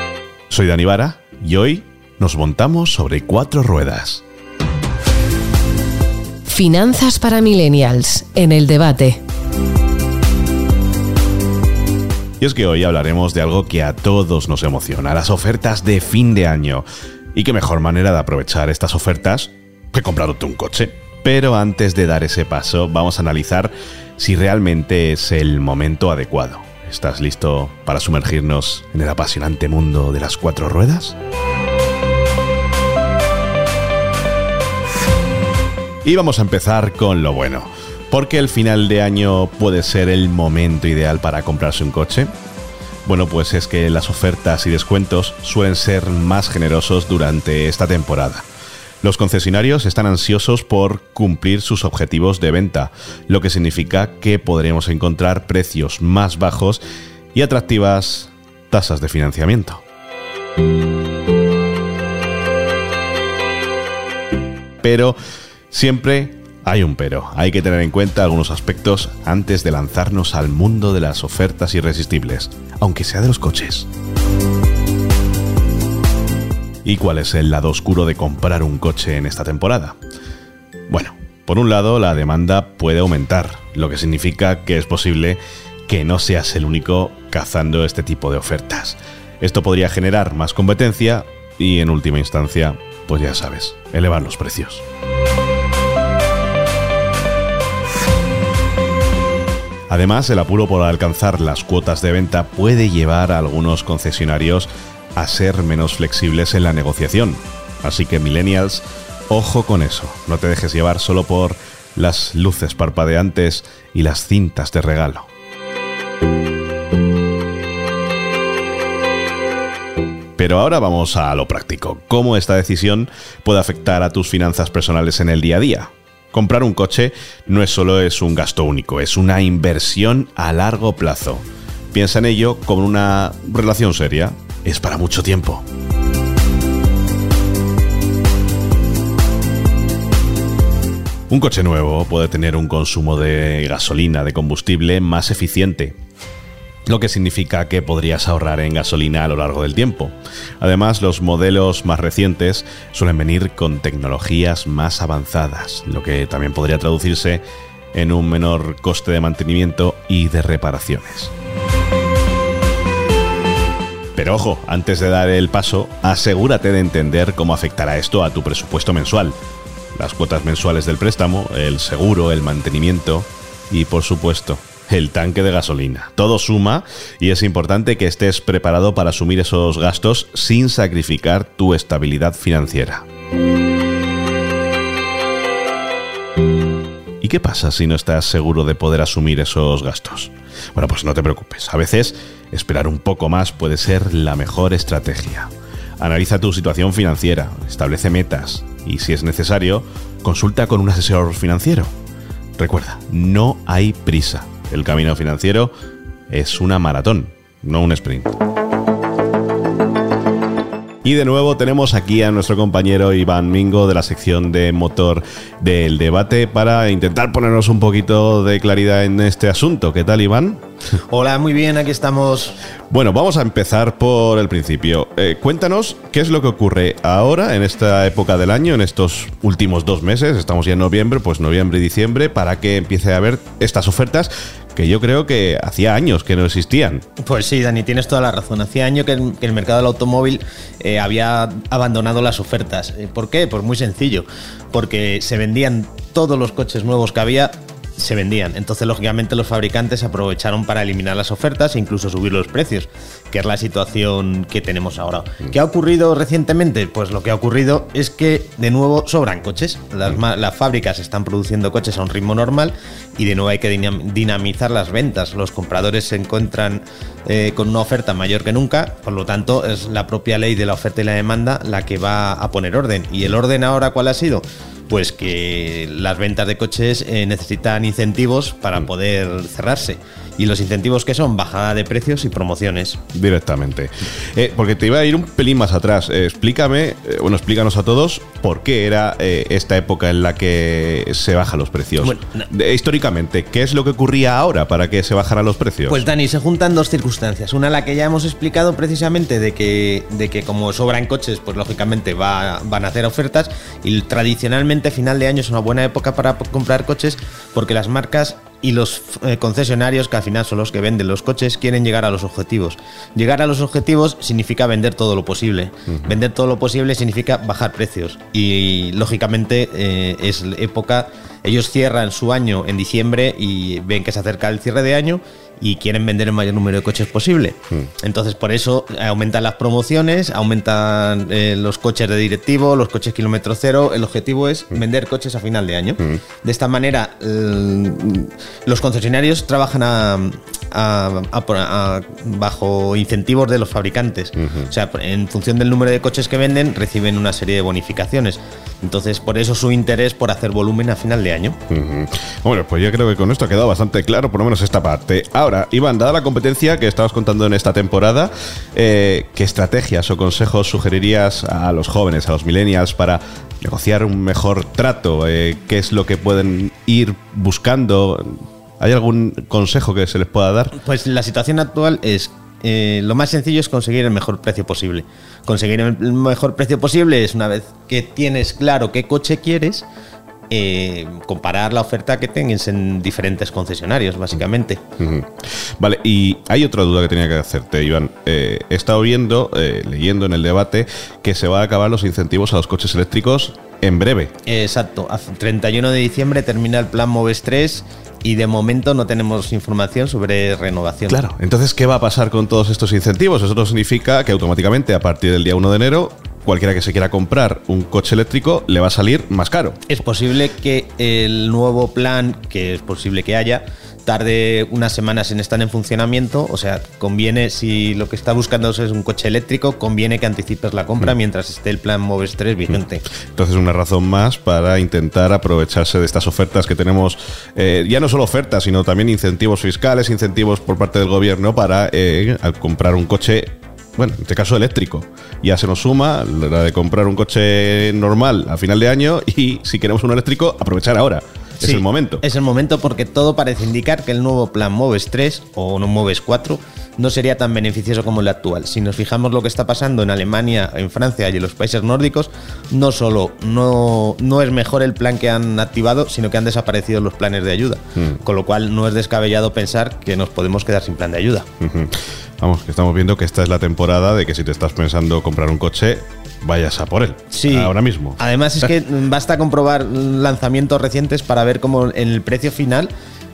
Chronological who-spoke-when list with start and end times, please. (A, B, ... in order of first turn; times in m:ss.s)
0:00.5-0:04.2 A
0:06.5-0:09.2 B
0:12.4-0:31.2 A
0:36.0-0:42.3 A
0:43.0-0:48.4 A
0:49.0-0:56.8 A
0:57.3-0:59.8 A
1:04.8-1:05.1 A
1:05.7-1:13.9 A
1:16.8-1:20.0 A
1:20.9-1:34.8 A
1:39.9-1:55.3 A
2:00.4-2:15.6 A
2:21.3-2:26.0 A
2:26.9-2:37.4 A
2:37.9-2:41.3 A
2:44.1-2:49.4 A
2:49.9-3:03.0 A
3:07.2-3:21.9 A
3:22.6-3:25.7 A
3:26.3-3:28.3 A
3:31.0-3:40.6 A
3:41.1-3:42.6 C
3:42.9-3:57.0 A
3:57.2-4:43.0 C
4:43.1-4:56.0 A
4:52.0-4:52.4 C
4:55.9-5:51.6 C
5:44.4-5:44.7 A
5:51.7-6:10.8 A
6:10.8-6:19.8 C
6:20.5-6:24.8 C
6:25.0-6:34.3 A
6:34.4-6:41.2 C
6:41.1-6:49.8 A
6:49.9-7:03.0 C
7:03.3-7:22.2 A
7:21.6-7:41.4 C
7:41.6-7:48.2 A
7:47.3-7:52.9 C